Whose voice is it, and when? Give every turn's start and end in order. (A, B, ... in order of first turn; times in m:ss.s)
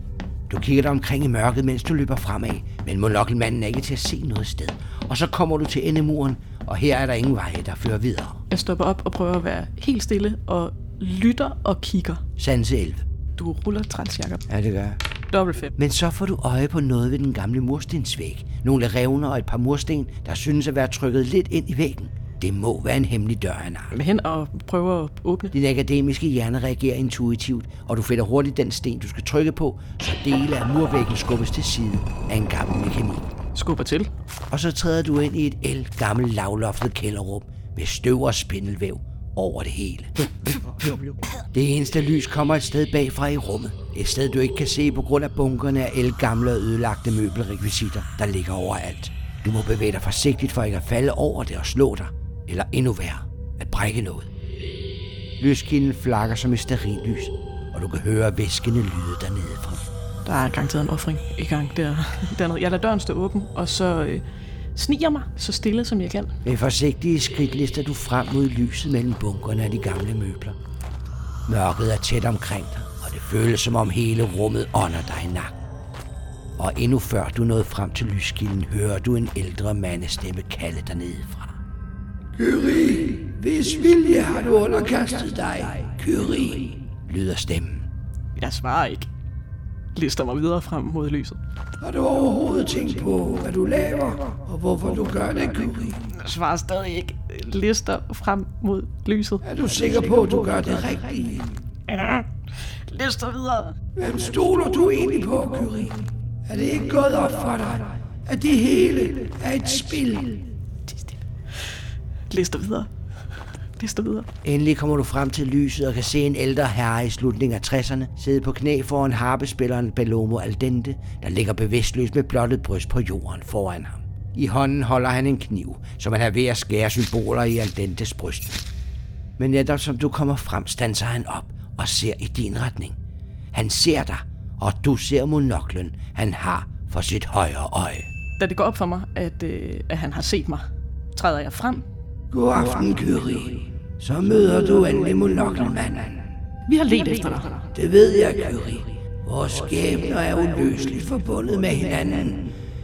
0:00.5-0:08.4 A
0:08.5-0:12.2 B
0:12.4-0:13.0 A
0:13.4-0:14.4 B
0:14.5-0:15.0 A
0:15.3-0:15.7 B
0:15.8-0:23.9 A
0:23.9-0:25.5 B
0:25.5-0:33.3 A
0:33.5-0:34.1 B
0:34.5-0:41.0 A
0:41.5-0:54.3 A
0:55.4-0:59.8 A
1:00.2-1:04.2 B
1:04.7-1:06.4 B
1:06.4-1:10.6 A
1:11.4-1:15.5 A
1:16.6-1:21.5 A
1:22.4-1:27.9 A
1:28.4-1:29.1 B
1:29.9-1:31.4 B
1:31.8-1:36.0 A
1:36.1-1:39.4 B
1:39.4-1:41.6 A
1:41.9-1:43.7 B
1:44.0-1:50.5 A
1:50.9-1:51.2 B
1:52.3-1:52.9 B
1:53.8-1:54.3 B
1:54.4-2:08.6 A
2:09.4-2:13.0 A
2:13.5-2:18.1 A
2:18.4-2:21.8 B
2:22.3-2:26.3 A
2:26.7-2:27.7 B
2:27.7-2:32.5 A